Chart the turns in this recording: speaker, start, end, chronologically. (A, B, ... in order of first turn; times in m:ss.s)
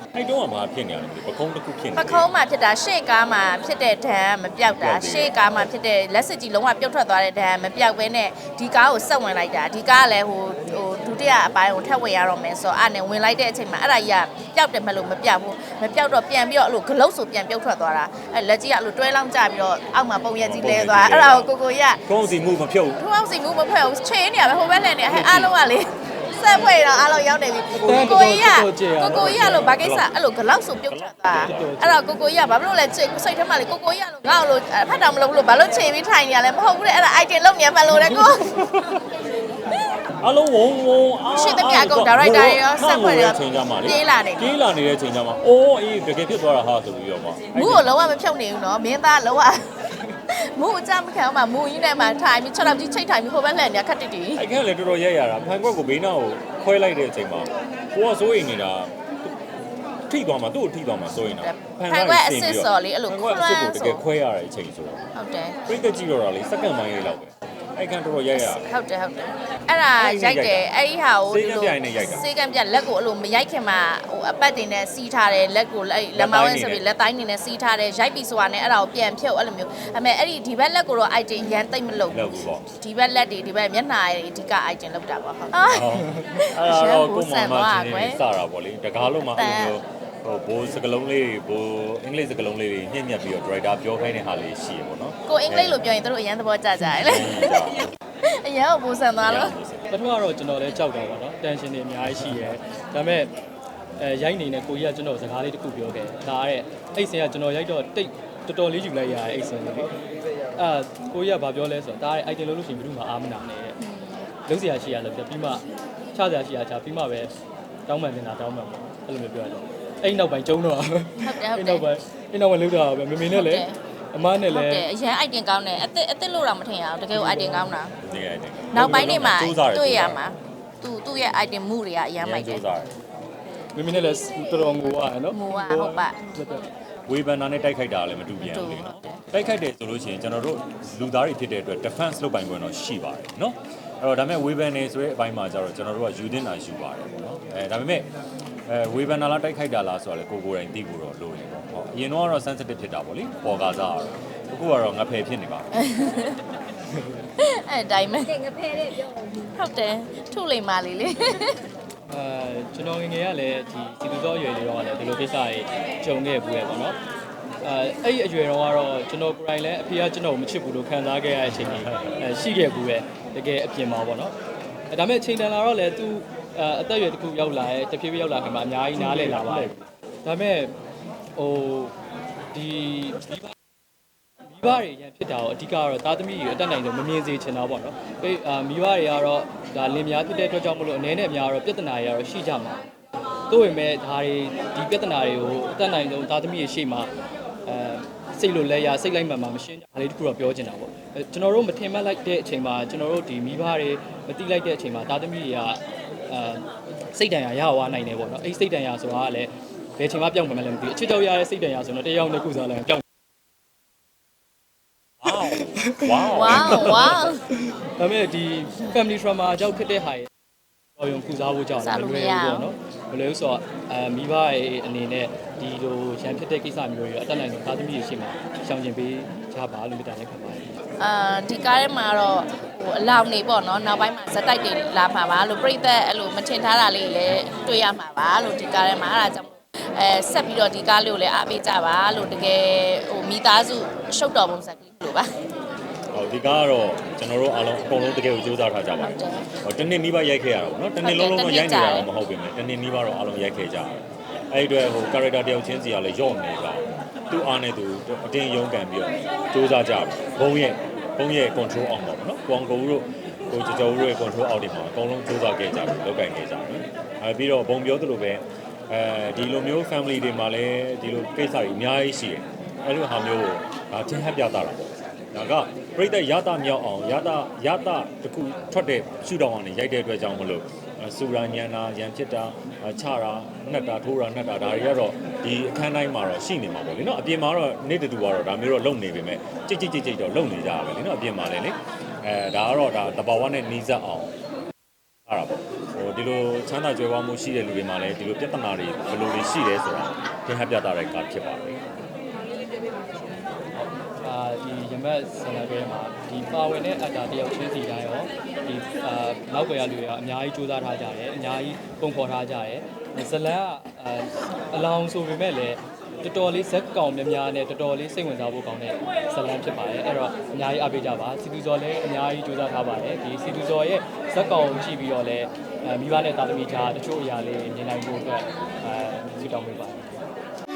0:00.1-0:02.3 A
0:02.0-0:22.0 B
0:04.6-0:05.7 A
0:20.4-0:21.5 A
0:22.1-0:23.0 A
0:23.0-0:38.5 B
0:25.1-0:25.5 A
0:27.8-0:29.7 C
0:29.1-0:30.1 A
0:30.9-0:31.8 A
0:31.3-0:32.0 C
0:38.4-0:39.0 A
0:40.2-0:47.9 A
0:41.3-0:44.5 B
0:47.5-0:49.6 B
0:50.3-0:54.4 B
0:54.4-0:59.3 A
1:00.1-1:05.0 A
1:01.4-1:04.0 B
1:05.2-1:05.6 B
1:05.7-1:08.6 A
1:08.4-1:28.2 B
1:10.0-1:10.7 A
1:11.3-1:12.2 A
1:16.2-1:16.8 A
1:22.1-1:22.7 A
1:25.6-1:35.8 A
1:29.4-1:29.8 B
1:35.3-1:39.5 B
1:36.8-1:37.9 A
1:39.2-1:39.9 A
1:39.9-1:43.3 C
1:44.0-1:49.9 C
1:50.6-1:53.8 C
1:53.8-1:54.3 B
1:54.5-1:57.3 C
1:57.9-2:04.8 C
2:01.2-2:01.9 B
2:03.3-2:03.8 B
2:04.5-2:08.0 B
2:07.1-2:07.7 C
2:08.0-2:10.2 A
2:08.7-2:12.6 B
2:12.2-2:12.9 A
2:13.8-2:16.7 C
2:15.3-2:16.2 B
2:17.1-2:28.1 A
2:18.5-2:19.2 B
2:28.7-2:35.7 A
2:35.8-2:36.4 B
2:37.4-2:38.9 B
2:39.5-2:41.6 B
2:42.1-2:47.0 C
2:47.6-2:54.4 C
2:51.5-2:52.2 A
2:54.9-2:59.7 C
2:59.0-2:59.8 A
3:00.2-3:00.7 C
3:01.4-3:01.9 C
3:02.5-3:03.5 C
3:04.5-3:12.8 C
3:13.5-3:17.1 C
3:17.7-3:33.0 C
3:35.2-3:37.3 A
3:35.4-3:40.3 C
3:36.3-3:37.4 B
3:41.0-3:50.8 C
3:41.8-3:42.7 B
3:51.0-4:05.3 B
4:06.1-4:54.3 A
4:09.0-4:09.5 B
4:11.0-4:12.1 B
4:55.3-5:01.8 A
5:03.8-5:30.2 C